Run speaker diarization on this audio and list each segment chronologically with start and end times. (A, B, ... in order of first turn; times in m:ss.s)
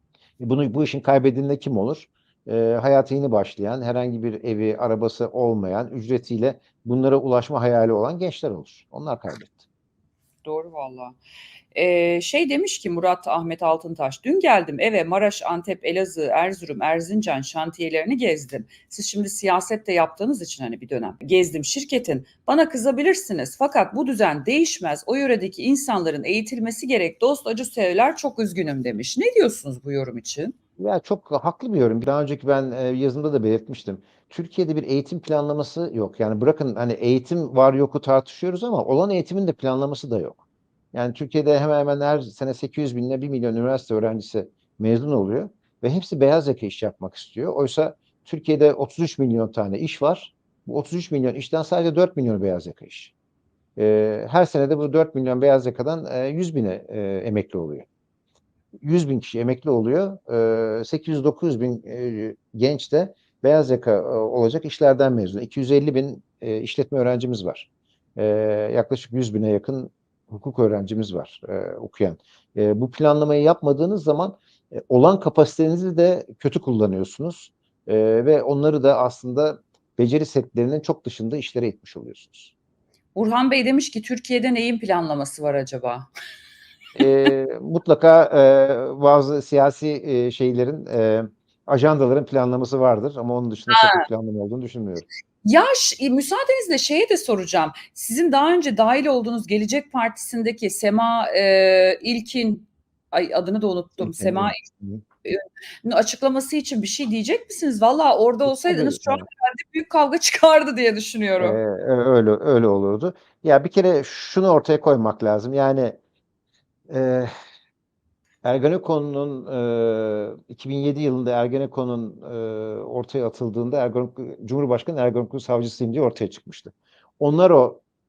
0:00.4-0:09.6 A
0:10.4-0:11.2 B
0:11.7-0:30.5 B
0:30.8-0:40.4 A
0:40.9-0:53.1 A
0:53.8-0:57.9 A
0:58.8-1:22.5 A
1:23.1-1:26.1 B
1:27.0-1:35.0 A
1:33.7-1:34.0 B
1:35.4-1:44.6 B
1:44.0-1:45.0 A
1:45.2-1:51.6 B
1:48.4-1:49.2 A
1:51.4-1:56.0 A
1:56.9-1:57.3 A
1:58.4-2:07.8 A